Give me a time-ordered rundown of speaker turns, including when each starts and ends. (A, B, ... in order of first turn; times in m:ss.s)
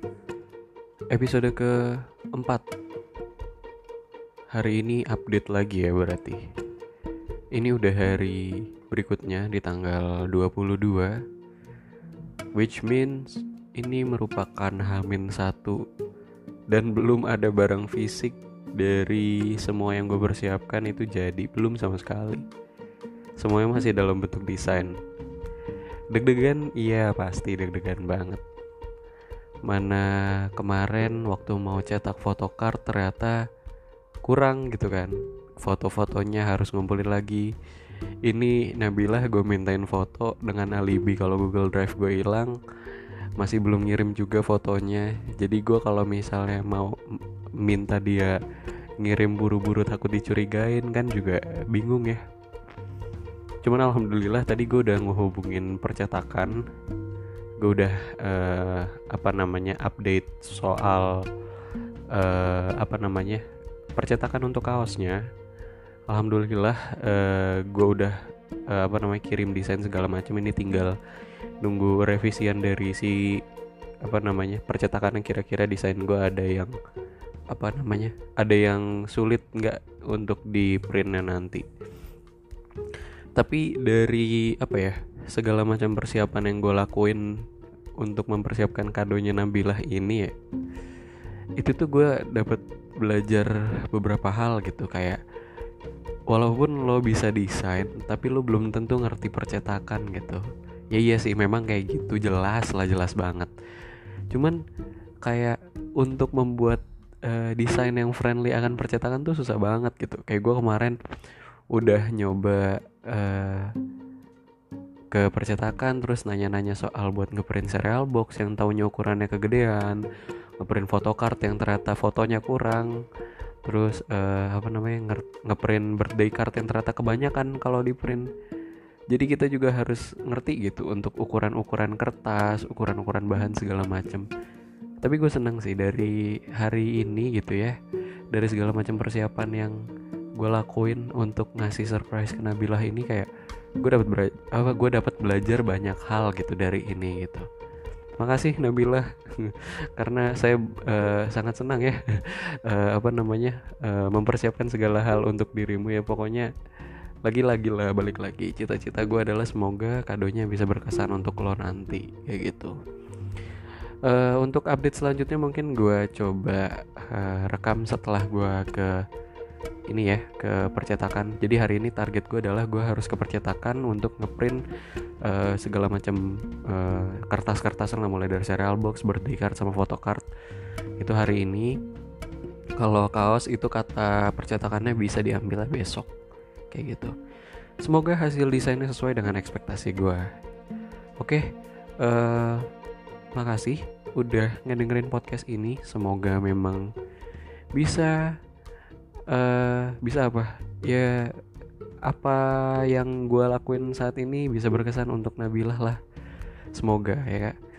0:01.1-0:02.7 A
0:04.5-0:06.5 A
0:07.5-0:11.2 A
0:12.6-0:15.8 A
0:16.7-0:22.4 A
0:23.4-0:25.0 A
0:26.1-0:28.4 A
0:29.7-0:33.4 A
0:34.2-0:37.5 A
0:38.3-0:42.6 A
0:43.4-0:47.0 A
0:47.6-0:48.4 A
0:49.0-0:52.2 A
0:53.6-0:56.6 A
0:57.6-1:01.3 A
1:02.1-1:03.4 A
1:04.0-1:05.2 A
1:06.1-1:08.2 A
1:08.7-1:11.0 A
1:11.6-1:13.4 A
1:14.0-1:16.8 A
1:17.5-1:21.7 A
1:23.4-1:27.4 A
1:28.0-1:30.3 A
1:31.6-1:35.2 A
1:36.3-1:43.5 A
1:44.3-1:44.6 A
1:45.2-1:51.0 A
1:51.7-1:53.7 A
1:55.1-2:00.0 A
2:00.6-2:03.0 A
2:03.6-2:08.3 A
2:09.1-2:14.3 A
2:15.0-2:17.8 A
2:18.3-2:19.8 A
2:20.4-2:27.5 A
2:28.2-2:36.5 A
2:37.2-2:42.8 A
2:44.0-2:49.0 A
2:49.9-2:54.6 A
2:55.2-3:00.3 A
3:01.0-3:01.7 A
3:02.8-3:06.1 A
3:06.7-3:07.2 A
3:07.8-3:10.3 A
3:11.2-3:11.5 A
3:12.0-3:12.7 A
3:13.4-3:16.9 A
3:17.8-3:18.3 A
3:19.3-3:21.3 A
3:22.1-3:26.0 A
3:26.8-3:27.6 A